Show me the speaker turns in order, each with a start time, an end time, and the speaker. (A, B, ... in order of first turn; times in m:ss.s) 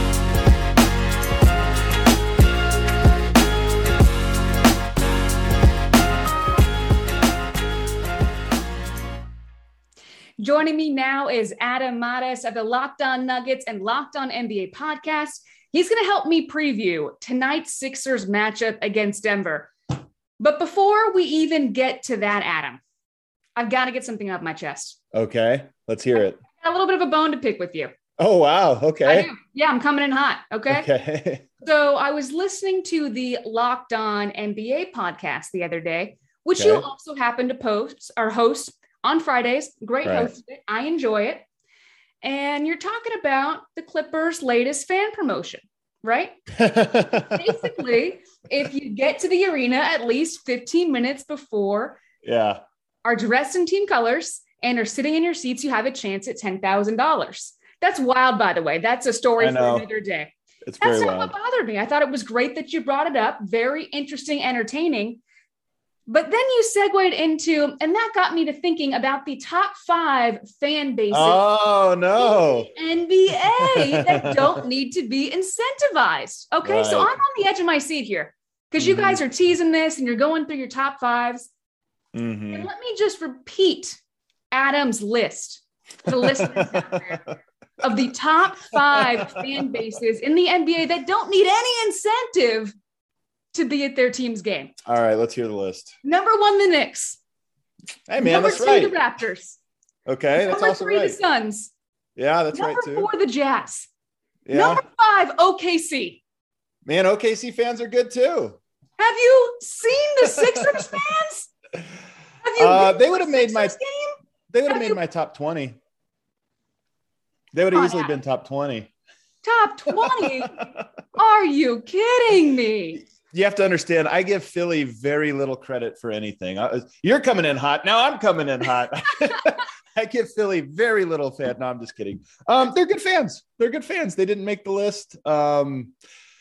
0:10.4-0:19.7 A
0:20.4-0:22.8 A
0:23.6-0:25.0 A
0:25.1-0:26.4 B
0:26.4-0:27.9 A
0:28.2-0:29.3 B
0:29.0-0:30.9 A
0:30.7-0:31.5 B
0:31.6-0:41.4 A
0:36.6-0:36.9 B
0:40.0-0:40.3 B
0:42.2-0:46.4 A
0:46.6-0:47.7 B
0:47.1-0:52.0 A
0:52.2-0:52.6 B
0:53.0-1:05.2 A
0:59.4-0:59.9 B
1:00.6-1:01.4 B
1:06.1-1:11.4 A
1:11.1-1:12.7 B
1:12.2-1:21.5 A
1:13.6-1:14.4 B
1:16.6-1:17.1 B
1:18.8-1:19.2 B
1:22.1-1:22.7 B
1:22.5-1:24.0 A
1:24.5-1:27.3 A
1:26.2-1:27.2 B
1:27.8-1:32.7 A
1:29.0-1:29.4 B
1:33.5-1:34.7 A
1:34.8-1:35.9 B
1:36.0-1:37.2 A
1:38.1-1:39.0 B
1:38.2-1:39.6 A
1:40.1-1:41.2 B
1:40.4-1:41.7 A
1:42.2-1:43.1 B
1:42.5-1:43.9 A
1:44.5-1:44.8 B
1:44.5-1:46.2 A
1:46.9-1:48.6 B
1:49.0-1:51.5 A
1:52.4-1:54.2 A
1:52.6-1:53.8 B
1:54.5-1:55.8 B
1:54.7-1:55.0 A
1:57.5-1:58.9 B
1:57.7-1:58.1 A
1:59.4-2:03.0 A
2:00.0-2:00.3 B
2:03.2-2:15.9 B